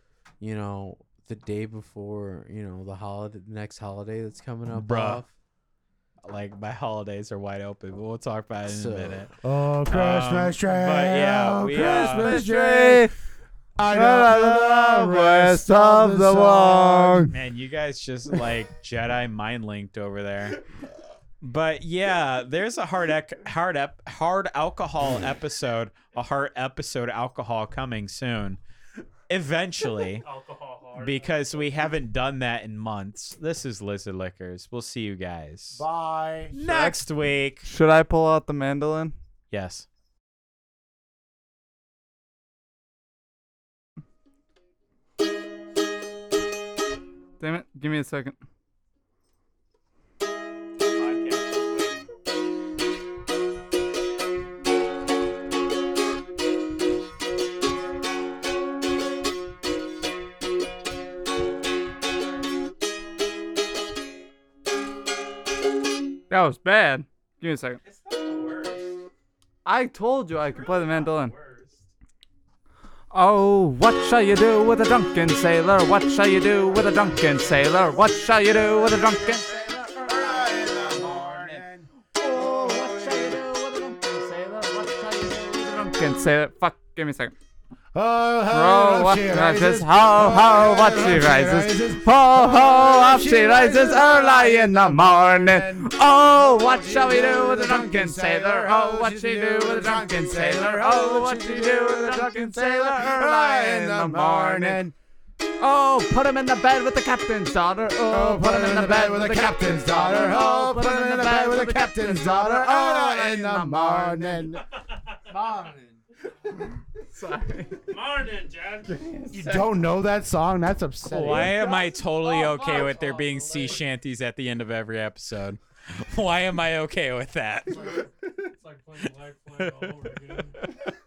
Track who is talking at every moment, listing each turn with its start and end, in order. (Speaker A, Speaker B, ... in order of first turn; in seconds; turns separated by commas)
Speaker A: 0.4-5.3, Speaker B: 4.7-5.2, Speaker B: 6.2-9.3, Speaker A: 8.7-9.3, Speaker C: 9.4-13.1, Speaker B: 9.8-12.4, Speaker D: 11.7-13.1, Speaker C: 13.8-17.3, Speaker D: 13.9-17.3, Speaker B: 17.3-20.6, Speaker B: 21.4-28.6, Speaker B: 29.3-30.2, Speaker E: 30.2-31.7, Speaker B: 30.9-35.8, Speaker C: 35.7-36.9, Speaker B: 36.5-37.7, Speaker D: 37.6-39.1, Speaker B: 39.5-39.9, Speaker D: 47.4-48.4, Speaker B: 50.9-52.0, Speaker D: 66.3-67.8, Speaker B: 67.8-69.0, Speaker D: 69.6-71.3, Speaker B: 70.5-71.8, Speaker D: 73.1-79.5, Speaker C: 78.0-83.4, Speaker B: 80.0-81.6, Speaker D: 82.2-87.3, Speaker C: 87.9-104.9, Speaker D: 88.5-104.8, Speaker D: 105.6-114.5, Speaker C: 108.1-114.7, Speaker D: 115.3-115.9, Speaker D: 117.1-117.8, Speaker E: 117.8-119.3, Speaker C: 119.3-121.7, Speaker D: 119.4-119.7, Speaker B: 121.1-128.1, Speaker D: 122.3-123.7, Speaker E: 128.6-130.6, Speaker B: 129.6-130.7